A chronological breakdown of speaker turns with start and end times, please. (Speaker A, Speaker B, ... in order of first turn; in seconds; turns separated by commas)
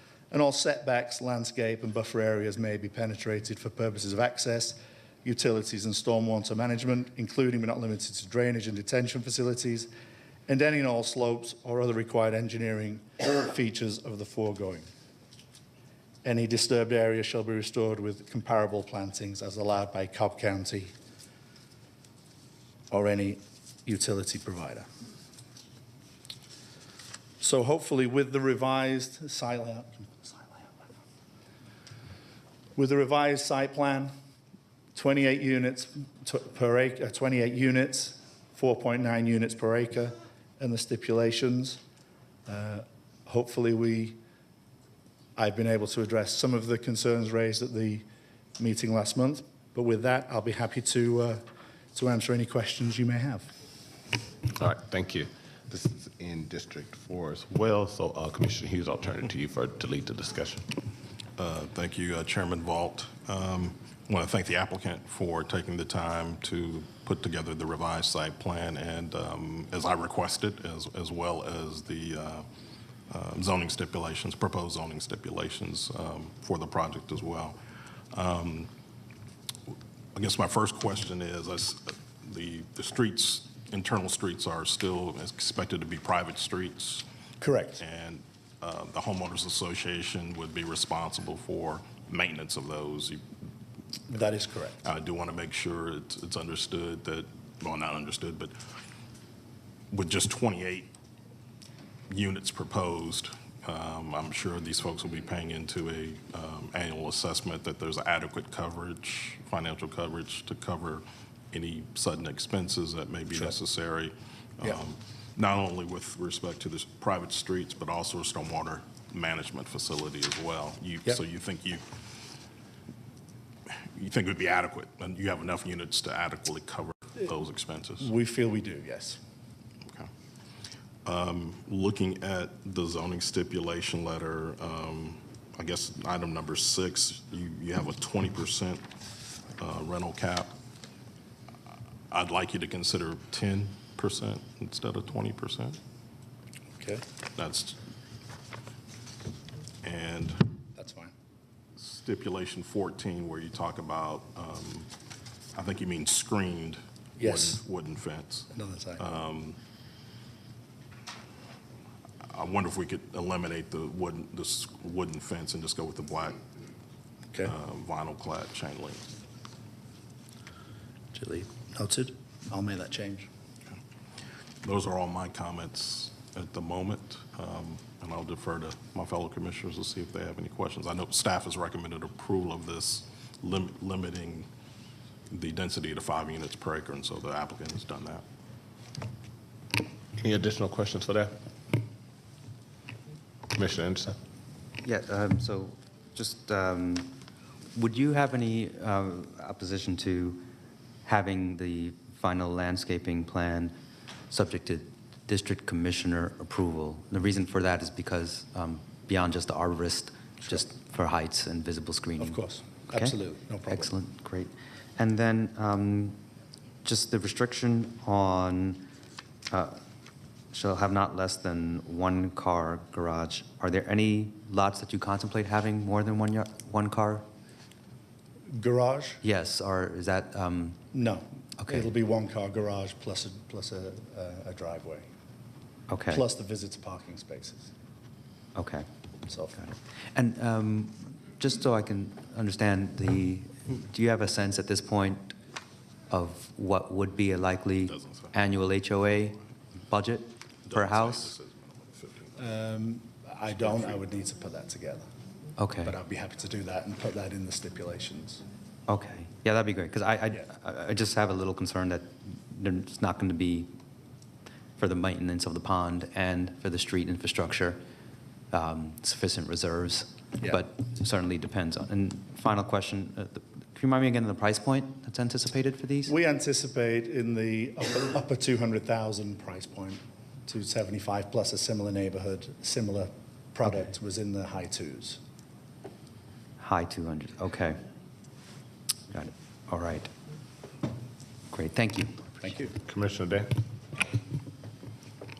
Speaker A: 0.3-9.9, Speaker A: 10.5-14.9, Speaker A: 16.2-20.9, Speaker A: 22.9-24.9, Speaker A: 27.4-30.7, Speaker A: 32.8-34.1, Speaker A: 34.9-41.8, Speaker A: 42.5-44.2, Speaker A: 45.4-48.0, Speaker A: 48.6-53.5, Speaker B: 54.6-60.6, Speaker C: 61.4-72.4, Speaker C: 73.1-77.5, Speaker C: 78.1-78.7, Speaker C: 80.1-87.0, Speaker A: 87.4-87.8, Speaker C: 87.8-93.2, Speaker A: 94.1-94.8, Speaker C: 94.8-98.5, Speaker C: 99.9-100.9, Speaker C: 102.1-122.0, Speaker C: 123.9-128.1, Speaker A: 128.0-129.2, Speaker C: 131.0-138.8, Speaker C: 139.6-140.5, Speaker C: 142.1-145.8, Speaker A: 146.7-147.0, Speaker C: 147.3-147.8, Speaker C: 149.8-150.4, Speaker A: 150.8-151.1, Speaker C: 151.8-154.9, Speaker C: 155.6-159.6, Speaker A: 157.2-157.6, Speaker A: 158.5-159.1, Speaker C: 162.3-166.4, Speaker C: 167.4-169.0, Speaker A: 171.1-173.3, Speaker C: 174.6-184.4, Speaker C: 185.3-188.2, Speaker B: 190.2-191.3, Speaker B: 193.5-194.2, Speaker D: 194.8-197.2, Speaker D: 197.7-200.5, Speaker D: 201.0-203.7, Speaker D: 204.3-213.1, Speaker A: 212.2-213.9, Speaker D: 213.7-216.2, Speaker D: 216.8-218.9, Speaker D: 219.5-219.8, Speaker D: 220.5-227.2, Speaker A: 228.5-229.2, Speaker D: 229.2-230.9, Speaker A: 230.9-235.1, Speaker D: 231.6-231.9, Speaker D: 235.9-236.2, Speaker A: 236.1-237.7, Speaker D: 238.5-238.9, Speaker A: 239.3-239.6, Speaker D: 239.6-245.3, Speaker D: 246.1-251.3, Speaker C: 247.9-248.3, Speaker C: 250.7-252.5, Speaker A: 252.4-255.1, Speaker C: 253.6-254.0, Speaker D: 255.6-255.9, Speaker A: 255.8-258.4, Speaker D: 258.9-263.8, Speaker D: 264.8-267.8, Speaker D: 268.5-276.1, Speaker A: 276.1-285.2, Speaker D: 286.6-287.8, Speaker D: 289.1-290.1, Speaker D: 291.5-292.3, Speaker A: 292.4-292.8, Speaker B: 292.8-293.6